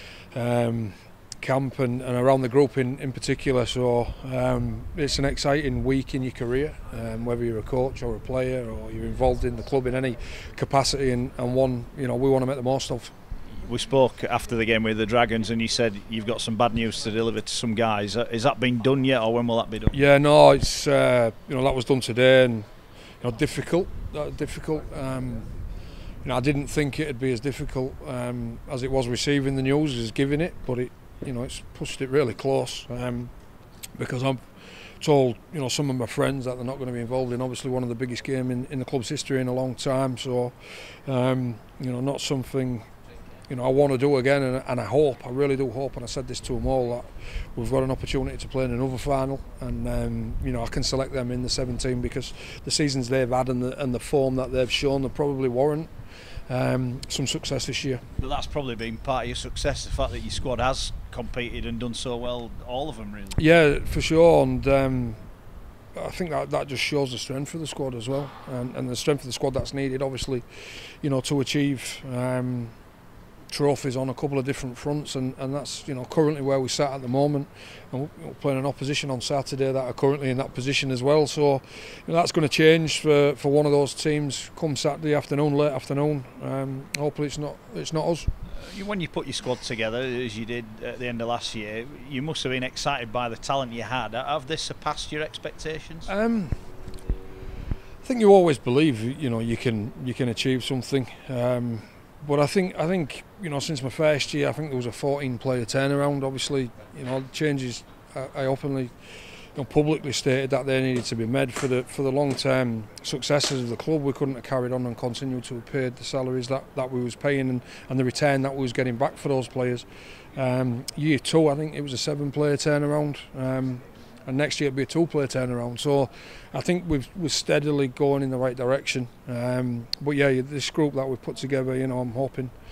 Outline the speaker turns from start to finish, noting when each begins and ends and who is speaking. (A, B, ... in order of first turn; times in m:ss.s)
0:00.3-0:13.1 A
0:13.5-0:20.0 B
0:19.9-0:22.7 A
0:23.2-0:25.5 A
0:26.2-0:33.3 A
0:34.0-0:34.4 A
0:35.0-0:40.5 A
0:41.0-0:42.9 A
0:43.5-0:55.9 A
0:56.5-0:58.0 A
0:58.2-1:03.4 B
1:03.4-1:05.2 A
1:05.9-1:12.7 A
1:13.5-1:28.3 A
1:28.5-1:36.1 B
1:36.1-1:36.6 A
1:38.0-1:48.9 A
1:49.5-2:12.5 A